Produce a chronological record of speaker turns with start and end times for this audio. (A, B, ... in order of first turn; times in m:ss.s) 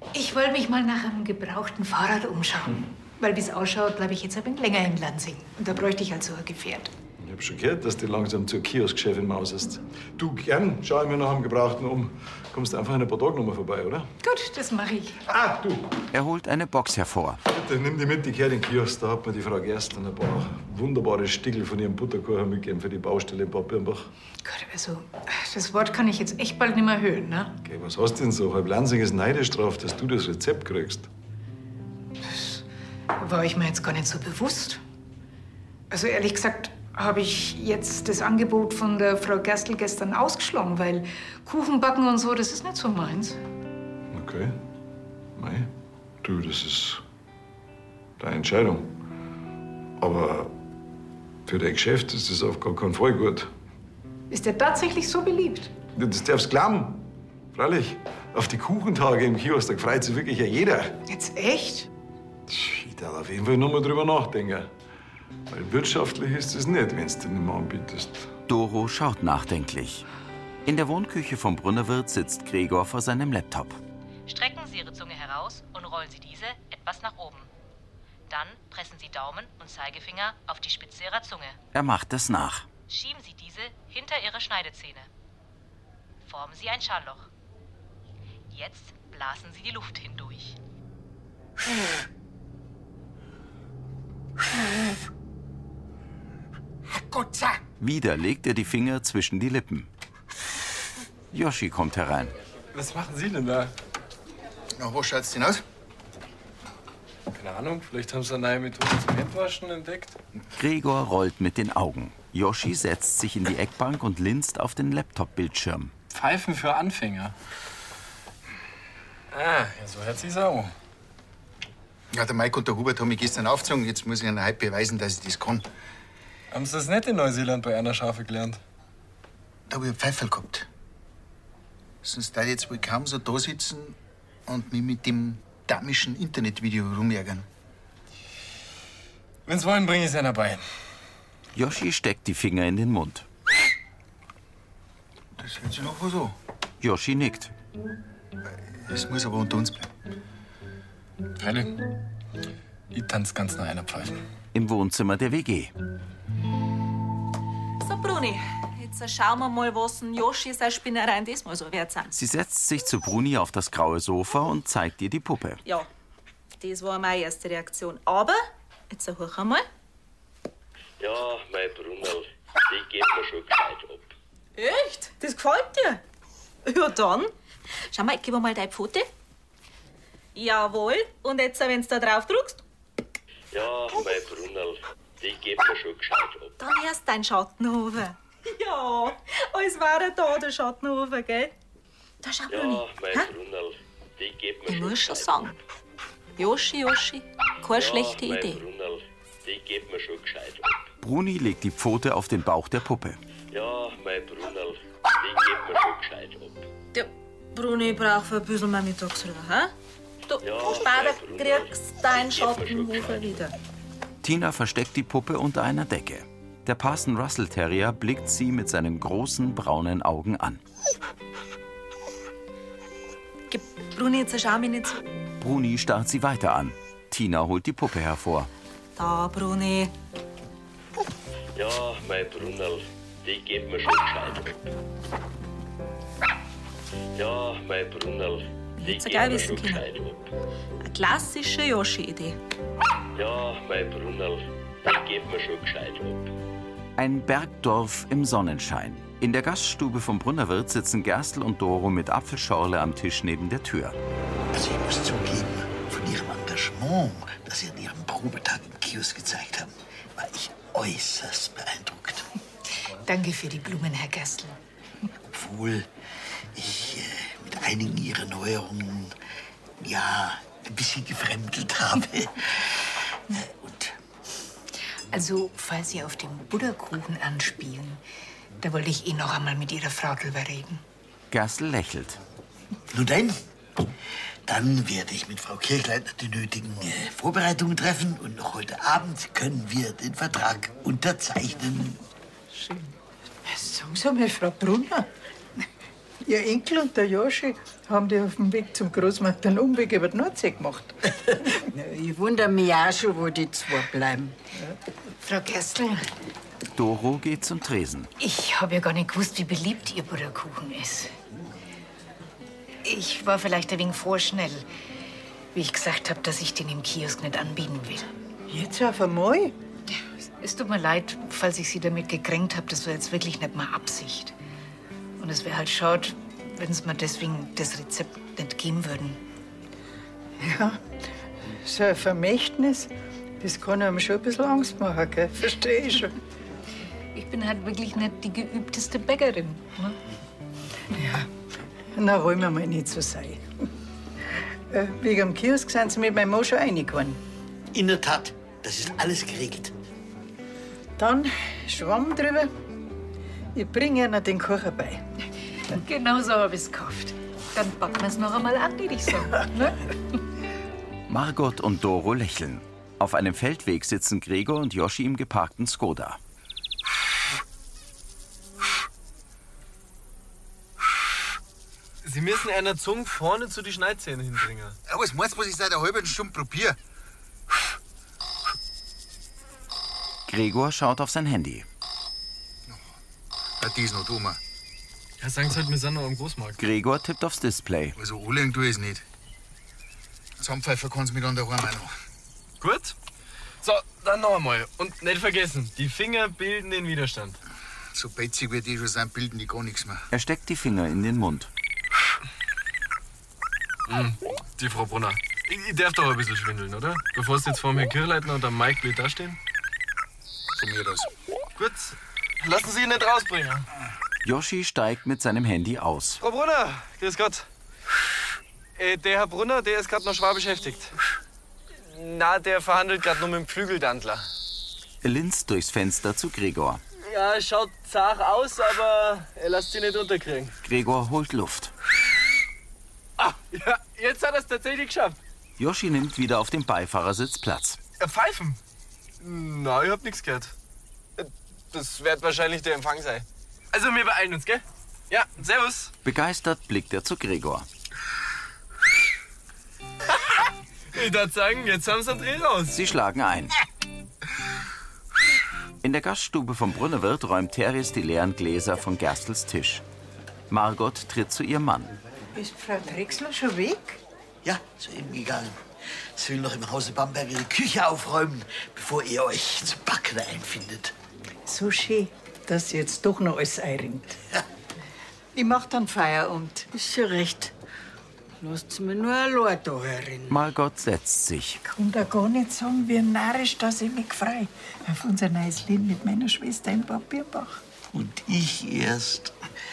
0:00.1-0:06.9 A
0:07.2-0:14.1 B
0:14.2-0:15.2 A
0:15.2-0:16.0 B
0:16.1-0:17.4 C
0:17.4-0:24.1 B
0:24.4-0:27.6 A
0:27.6-0:31.1 B
0:32.2-0:32.6 A
0:33.2-0:34.8 A
0:35.9-0:43.4 A
0:44.1-0:44.5 B
0:45.4-0:45.7 B
0:46.2-0:47.0 B
0:48.2-0:48.9 B
0:50.0-0:50.5 B
0:51.4-0:53.5 B
0:54.3-0:55.7 A
0:56.0-1:01.0 B
1:01.1-1:01.9 A
1:02.5-1:04.7 B
1:05.5-1:08.3 B
1:08.5-1:10.0 C
1:10.6-1:13.8 C
1:14.3-1:17.5 D
1:18.3-1:21.6 D
1:21.7-1:22.6 C
1:22.9-1:25.1 D
1:26.3-1:27.3 D
1:28.5-1:30.6 D
1:37.2-1:37.5 E
1:37.8-1:39.9 C
1:41.3-1:42.3 C
1:42.7-1:43.7 F
1:44.8-1:45.6 G
1:47.3-1:50.2 F
1:50.6-1:55.9 C
1:56.1-1:57.3 F
1:59.3-2:00.7 F
2:02.1-2:05.6 G
2:06.5-2:08.6 F
2:09.7-2:10.7 G
2:12.0-2:17.5 G
2:19.4-2:20.6 F
2:21.5-2:23.2 C
2:25.4-2:26.3 G
2:26.8-2:27.5 C
2:28.8-2:29.9 G
2:31.4-2:31.8 F
2:32.9-2:34.2 F
2:34.5-2:35.7 C
2:37.8-2:42.2 H
2:42.1-2:45.6 C
2:46.6-2:49.6 H
2:51.0-2:54.1 I
2:54.6-2:56.0 H
2:56.6-2:57.3 H
2:57.9-2:59.1 H
3:00.3-3:02.6 H
3:03.5-3:06.6 I
3:06.6-3:11.5 H
3:12.2-3:13.3 H
3:12.5-3:15.5 I
3:14.7-3:15.5 H
3:16.4-3:18.6 H
3:17.7-3:20.8 I
3:21.0-3:23.2 C
3:23.5-3:26.7 I
3:26.9-3:29.7 H
3:30.3-3:33.5 H
3:30.4-3:33.3 I
3:34.2-3:40.6 C
3:43.5-3:45.0 H
3:45.4-3:48.5 C
3:49.0-3:49.9 H
3:51.6-3:54.6 I
3:57.1-4:00.2 I
3:58.8-3:59.8 H
4:00.8-4:02.4 H
4:03.1-4:06.3 I
4:07.0-4:13.9 C
4:14.5-4:22.2 J
4:23.0-4:24.6 A
4:25.3-4:25.9 J
4:26.5-4:29.1 J
4:29.8-4:34.0 J
4:35.1-4:38.0 A
4:38.6-4:40.8 A
4:41.3-4:42.2 C
4:42.9-4:43.4 J
4:44.5-4:52.0 J
4:53.4-4:55.1 K
4:56.2-5:01.0 K
5:01.7-5:04.4 E
5:05.2-5:06.1 A
5:06.7-5:08.1 C
5:08.2-5:11.1 A
5:12.8-5:14.6 A
5:15.5-5:18.1 A
5:18.5-5:19.5 K
5:20.4-5:24.3 A
5:25.2-5:29.2 A
5:30.4-5:30.8 K
5:31.5-5:36.1 K
5:37.1-5:40.0 A
5:41.0-5:41.3 K
5:41.9-5:43.4 K
5:44.7-5:47.2 K
5:47.7-5:49.7 J
5:51.0-5:52.5 K
5:53.5-5:55.0 K
5:55.7-6:00.2 A
6:01.1-6:06.2 C
6:12.0-6:14.8 F
6:14.9-6:16.8 G
6:20.3-6:21.6 C
6:23.6-6:24.4 G
6:25.2-6:26.6 F
6:26.6-6:28.0 C
6:28.0-6:29.0 G
6:30.4-6:31.9 G
6:32.6-6:32.9 F
6:33.6-6:37.4 F
6:37.9-6:40.0 G
6:40.1-6:41.5 C
6:43.9-6:49.4 F
6:50.5-6:51.1 G
6:51.6-6:53.6 F
6:54.2-6:56.2 C
6:56.2-6:57.5 F
6:58.8-7:00.9 F
7:01.8-7:04.3 F
7:05.0-7:06.8 C
7:07.0-7:10.6 F
7:10.6-7:11.7 C
7:13.2-7:15.2 F
7:15.6-7:17.8 C
7:18.0-7:18.6 F
7:19.2-7:20.5 F
7:21.2-7:25.9 F
7:26.0-7:27.7 C
7:30.9-7:32.8 F
7:32.7-7:33.5 C
7:35.8-7:39.8 C
7:40.5-7:41.9 C
7:42.3-7:44.0 K
7:44.4-7:50.9 J
7:51.4-7:54.2 K
7:55.3-7:56.7 K
7:56.7-7:57.5 E
7:58.4-8:00.4 E
8:00.3-8:01.6 C
8:01.6-8:07.6 K
8:07.9-8:09.4 J